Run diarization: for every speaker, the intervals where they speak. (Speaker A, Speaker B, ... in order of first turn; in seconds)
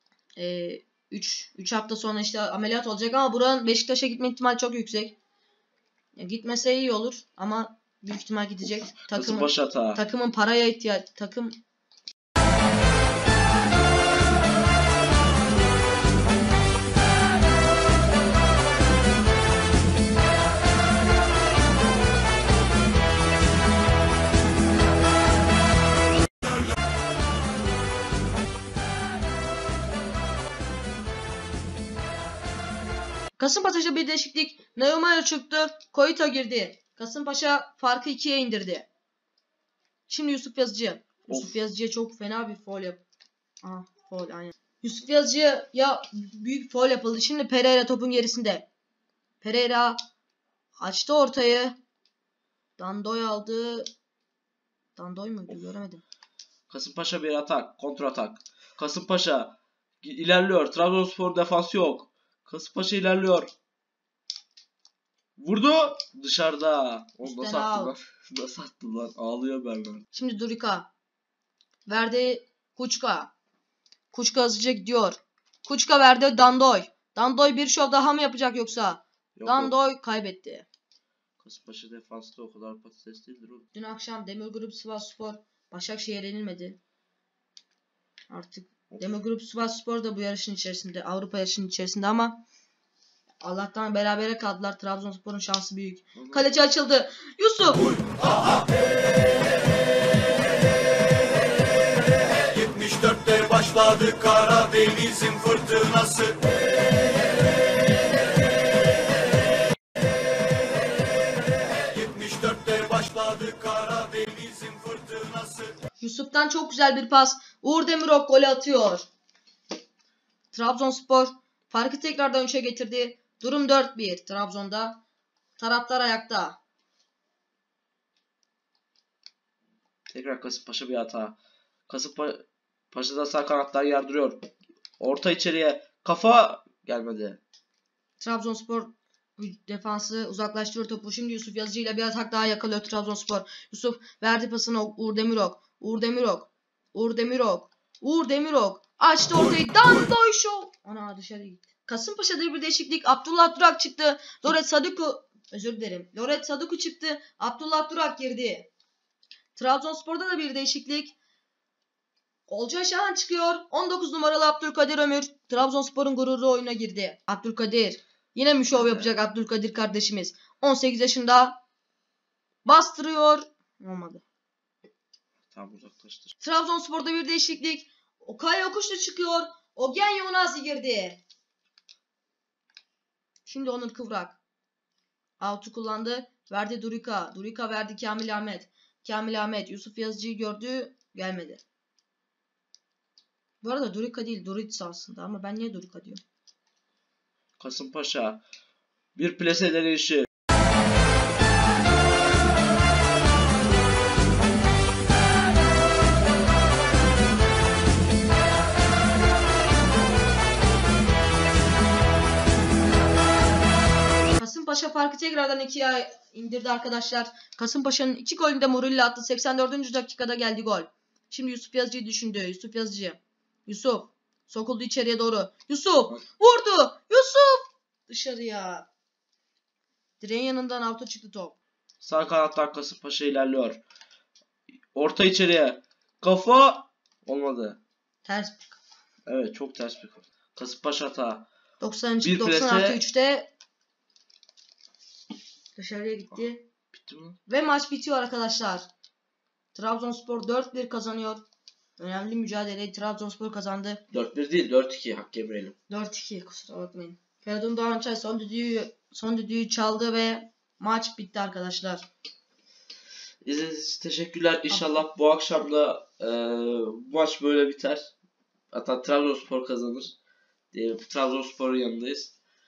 Speaker A: 0.4-5.2, 6.2-11.6, 33.4-38.9, 40.1-43.0, 43.6-48.7, 49.4-50.0, 50.8-51.8, 52.8-53.9, 55.0-56.0, 67.2-67.9, 70.1-70.9, 71.9-73.3, 74.1-80.7, 83.7-86.8, 88.3-92.4, 93.4-98.0, 116.0-119.1, 120.5-125.0, 125.6-126.6, 138.2-158.7, 159.6-161.2, 162.5-171.6, 172.7-174.2, 176.4-181.2, 183.5-184.4, 185.4-191.6, 193.6-196.2, 214.3-228.9, 230.2-231.6, 238.2-238.8, 241.8-243.5, 245.8-246.6, 247.5-248.9, 249.7-251.4, 252.0-254.0, 255.9-262.1, 264.7-265.0
Speaker B: 9.1-10.0, 41.3-41.6, 56.7-63.5, 65.4-70.0, 79.4-79.7, 81.4-83.7, 96.2-96.5, 130.1-137.4, 168.7-169.2, 175.5-176.3, 197.6-198.4, 199.2-200.3, 232.0-233.8, 234.9-237.8, 239.3-241.5, 242.2-243.0, 246.9-247.4, 254.1-255.8, 263.4-268.1, 268.7-270.2, 270.7-272.3
Speaker C: 102.5-106.3, 112.0-115.7